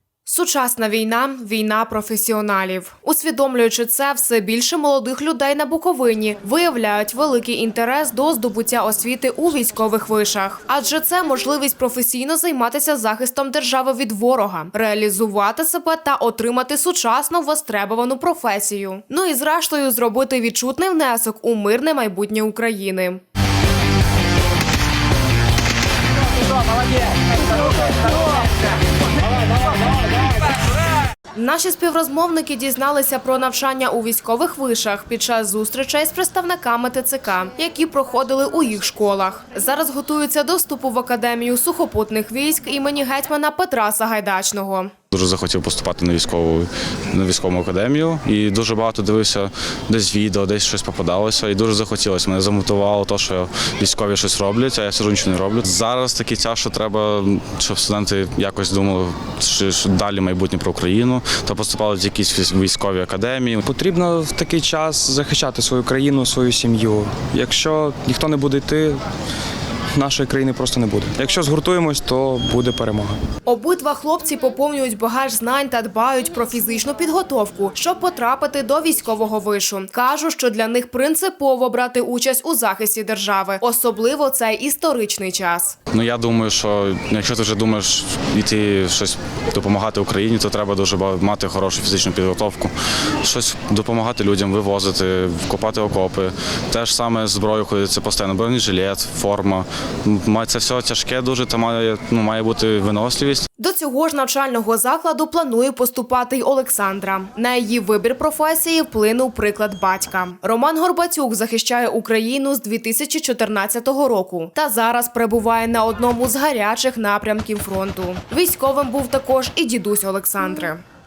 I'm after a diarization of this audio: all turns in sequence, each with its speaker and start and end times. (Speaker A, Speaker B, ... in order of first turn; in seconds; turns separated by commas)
Speaker A: 0.3-23.2, Speaker A: 31.4-44.9, Speaker B: 45.1-63.6, Speaker C: 63.6-69.0, Speaker C: 70.0-73.2, Speaker A: 73.5-85.8, Speaker B: 85.9-103.5, Speaker A: 103.6-120.8